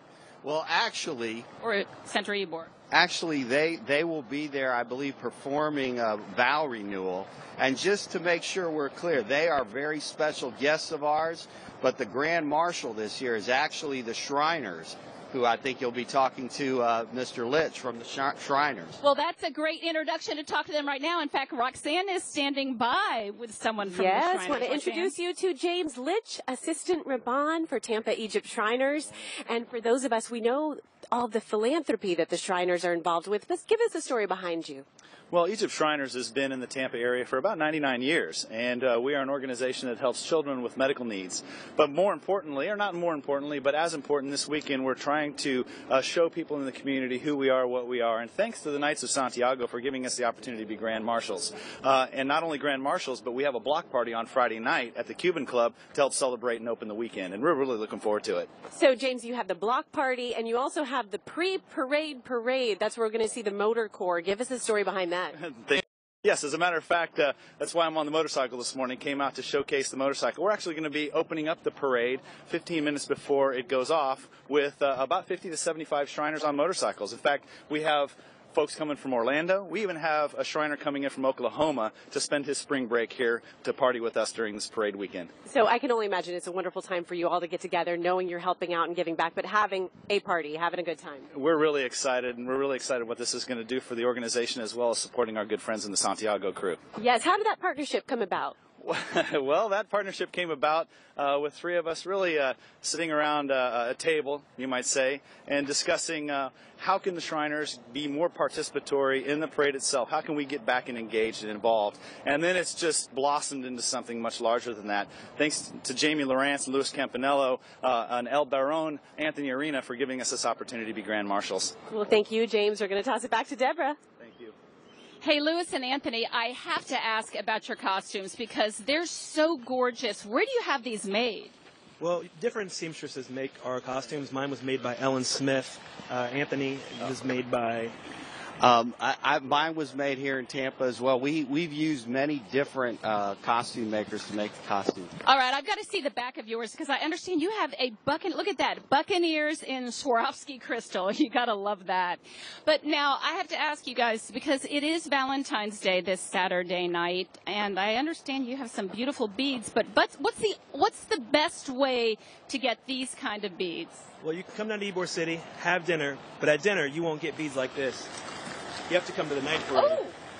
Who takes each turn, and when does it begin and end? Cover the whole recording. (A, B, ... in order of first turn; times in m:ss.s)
0:00.4-0:01.5 A
0:01.6-0:02.7 B
0:02.9-0:19.0 A
0:19.0-0:25.2 B
0:23.8-0:34.8 C
0:35.3-0:58.5 D
0:58.7-1:05.4 C
1:05.4-1:25.3 D
1:25.5-1:31.3 C
1:31.3-1:36.8 D
1:37.0-1:38.6 C
1:38.8-2:01.8 D
2:01.9-2:04.0 C
2:04.2-2:04.5 D
2:05.2-2:11.5 B
2:12.0-2:18.0 E
2:18.6-2:25.1 A
2:25.2-2:44.1 B
2:44.2-2:48.1 E
2:48.9-2:50.0 E
2:49.8-2:50.2 B